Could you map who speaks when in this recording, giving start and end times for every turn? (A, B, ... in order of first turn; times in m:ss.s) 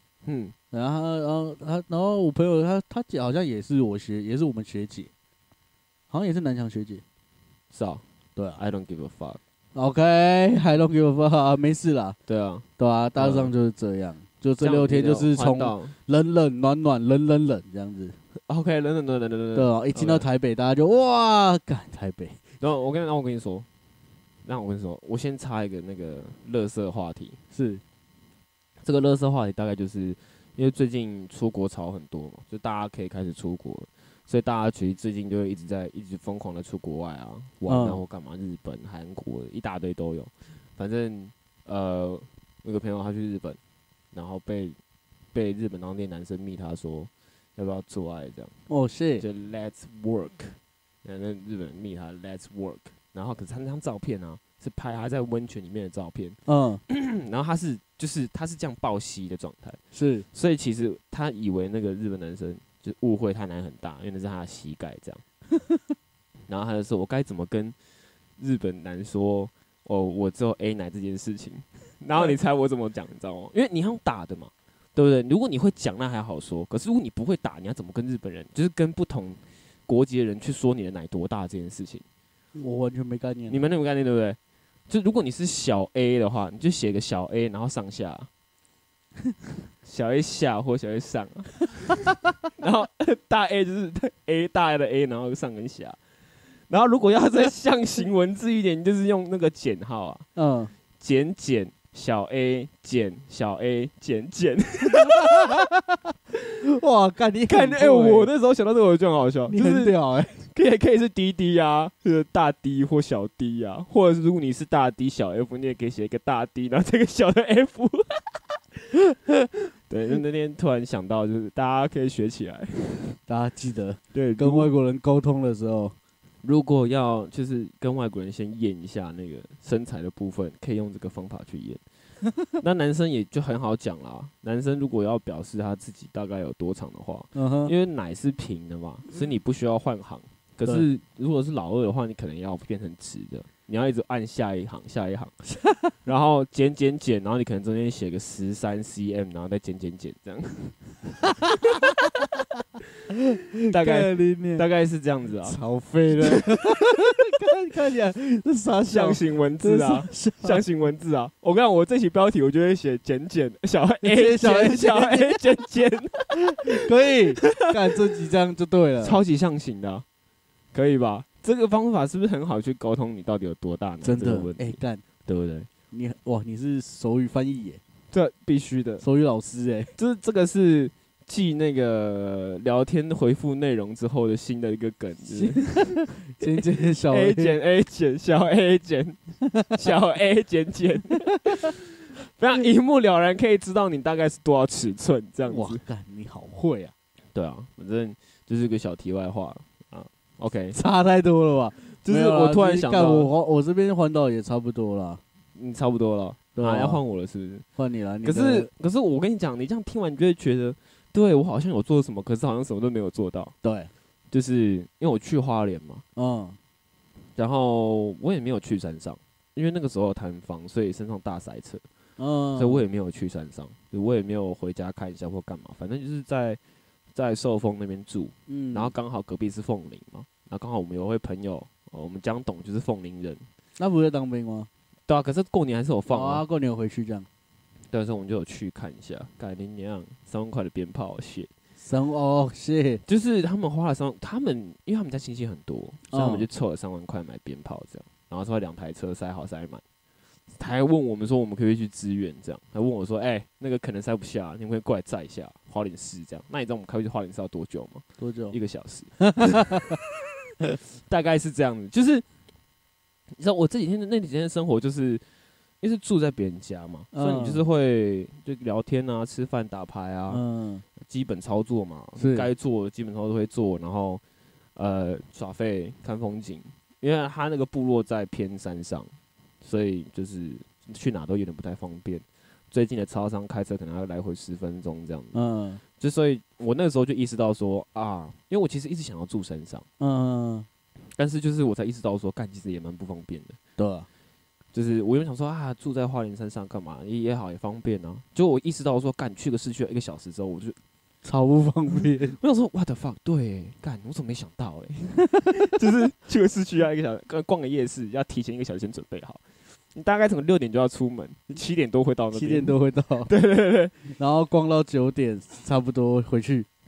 0:00.2-0:00.5 A
0:00.7-0:05.1 B
0:06.1-0:07.0 B
0:07.7-0:08.0 A
0:08.6-0:09.4 A
0:09.7-0:12.2 B
0:12.3-0:13.5 A
0:12.8-0:18.2 B
0:14.6-0:15.9 A
0:18.4-0:20.2 A
0:19.5-0:22.4 B
0:22.6-0:23.7 A
0:24.4-0:27.4 A
0:27.5-0:27.8 B
0:28.8-0:43.6 A
0:37.7-0:38.0 B
0:44.1-0:44.8 A
0:45.3-0:48.5 A
0:48.7-0:49.2 B
0:49.2-0:59.8 A
0:56.4-0:56.8 B
0:59.9-1:00.2 B
1:00.3-1:05.2 A
1:06.5-1:07.8 A
1:08.4-1:22.0 A
1:22.6-1:23.6 B
1:23.5-1:24.4 A
1:24.9-1:28.3 A
1:29.8-1:36.0 A
1:36.7-1:40.2 A
1:40.4-1:40.7 B
1:41.0-1:45.6 A
1:44.9-1:46.0 B
1:46.6-1:48.3 B
1:47.5-1:58.4 A
1:49.5-1:50.4 B
1:59.9-2:03.2 A
2:03.3-2:05.9 B
2:04.1-2:04.7 A
2:06.4-2:11.8 A
2:12.5-2:25.4 A
2:17.3-2:17.7 B
2:25.5-2:25.9 B
2:26.0-2:30.8 A
2:31.4-2:32.2 B
2:33.1-2:34.6 B
2:33.7-2:35.6 A
2:35.4-2:40.6 B
2:36.2-2:36.9 A
2:38.9-2:46.8 A
2:44.0-2:45.4 B
2:46.4-2:49.2 B
2:47.4-2:47.6 A
2:49.0-2:50.0 A
2:50.7-2:55.7 A
2:54.0-2:55.0 B
2:55.9-2:57.8 B
2:58.1-2:59.0 A
2:59.0-2:59.9 B
3:00.0-3:15.8 A
3:05.3-3:07.6 B
3:15.5-3:16.9 B
3:17.3-3:20.8 A
3:20.7-3:25.2 B
3:22.0-3:23.3 A
3:25.5-3:27.6 A
3:26.5-3:27.0 B
3:27.8-3:28.7 B
3:28.2-3:33.5 A
3:33.6-3:33.9 B
3:34.3-3:36.0 A
3:36.2-3:36.6 B
3:37.4-3:41.8 A
3:42.2-3:42.8 B
3:42.5-3:46.6 A
3:47.1-3:53.4 A
3:48.5-3:48.9 B
3:53.8-3:54.7 B
3:55.1-3:56.4 A
3:56.1-3:57.3 B
3:57.9-4:01.5 A
4:01.8-4:03.0 B
4:03.0-4:09.8 A
4:06.1-4:06.4 B
4:10.5-4:20.0 A
4:18.2-4:18.6 B
4:19.2-4:20.0 B
4:20.9-4:22.2 A
4:23.4-4:25.2 A
4:25.8-4:30.4 A
4:27.1-4:27.6 B
4:30.3-4:30.8 B
4:31.0-4:34.2 A
4:32.2-4:32.5 B
4:34.7-4:45.4 A
4:45.3-4:45.8 B
4:45.9-4:49.8 A
4:50.0-4:50.7 B
4:51.0-4:53.6 A
4:53.8-4:54.1 B
4:54.7-5:00.8 A
5:01.2-5:02.4 B
5:02.4-5:09.4 A
5:05.2-5:05.5 B
5:09.9-5:12.8 A
5:12.3-5:13.3 B
5:13.3-5:14.0 A
5:14.1-5:16.7 B